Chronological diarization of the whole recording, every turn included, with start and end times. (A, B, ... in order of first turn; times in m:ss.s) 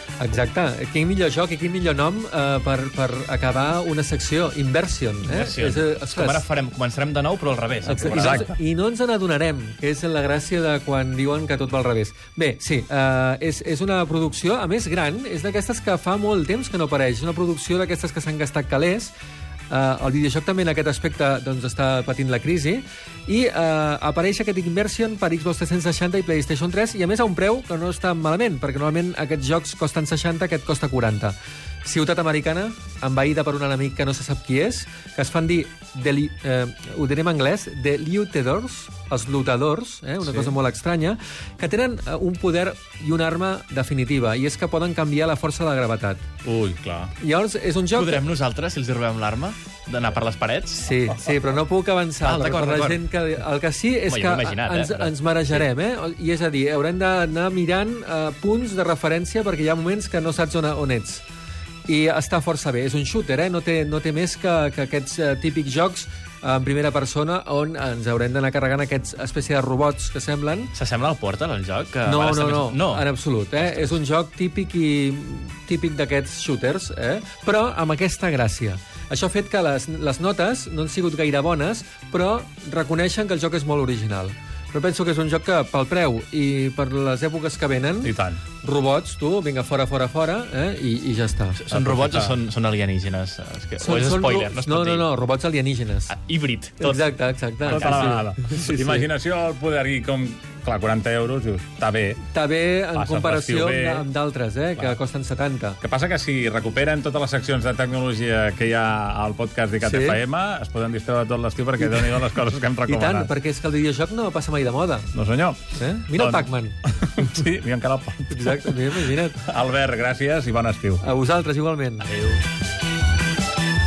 0:00.2-0:06.4 A
0:05.2-0:08.4 B
0:07.8-0:19.1 A
0:08.1-0:08.5 C
0:19.7-0:46.2 A
0:46.4-0:47.1 C
0:47.2-0:48.2 A
0:47.9-0:51.1 B
0:50.8-1:01.2 A
0:52.2-0:53.0 B
0:54.0-0:55.6 B
1:01.9-1:10.7 A
1:10.7-1:13.1 B
1:12.0-1:31.6 A
1:13.6-1:13.9 B
1:28.0-1:28.4 C
1:31.6-1:35.1 B
1:31.7-1:32.4 C
1:33.8-1:36.1 A
1:36.1-1:37.0 B
1:36.8-1:39.1 A
1:37.6-1:42.2 C
1:37.7-1:38.2 B
1:42.3-1:45.8 A
1:42.9-1:44.1 C
1:45.8-1:53.3 C
1:49.8-1:50.2 A
1:52.8-1:55.1 A
1:55.1-1:55.6 C
1:55.7-1:56.8 A
1:56.1-1:56.5 C
1:57.0-1:58.7 C
1:58.3-1:59.4 A
1:59.4-2:01.0 C
2:01.0-2:02.1 A